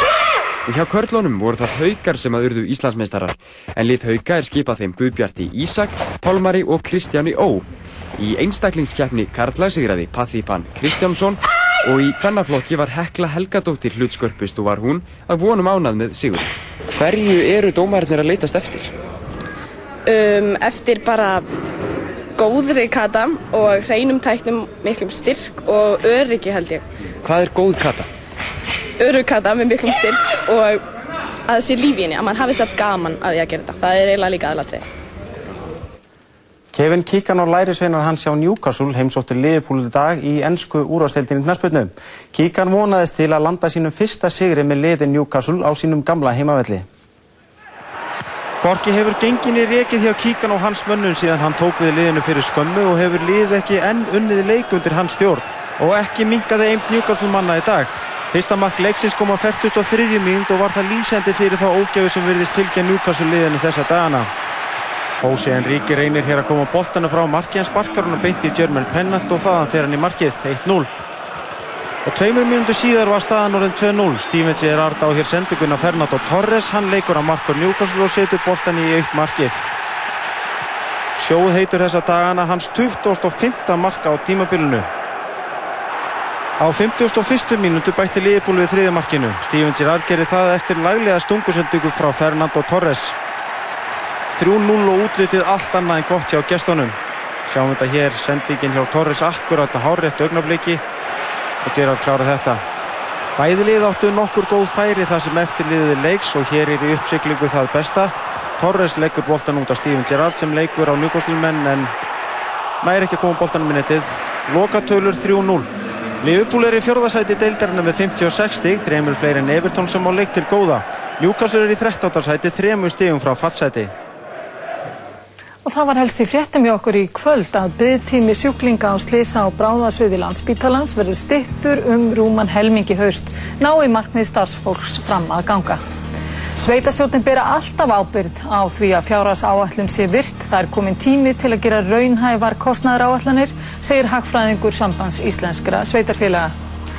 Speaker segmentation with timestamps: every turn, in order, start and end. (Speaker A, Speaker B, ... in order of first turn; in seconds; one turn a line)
Speaker A: 0.6-18.9
Speaker B: 20.1-21.4
Speaker B: 22.4-26.8
Speaker A: 27.2-28.1
Speaker B: 29.0-30.8
Speaker B: 31.5-34.9
Speaker C: 36.7-46.8
Speaker C: 48.6-64.3
Speaker C: 65.2-70.9
Speaker C: 72.0-79.6
Speaker C: 81.2-84.9
Speaker C: 86.6-93.2
Speaker C: 94.3-97.0
Speaker C: 97.5-100.8
Speaker C: 101.6-102.6
Speaker C: 103.4-111.9
Speaker C: 112.8-115.7
Speaker C: 116.2-123.9
Speaker D: 125.6-135.8
Speaker D: 136.6-146.5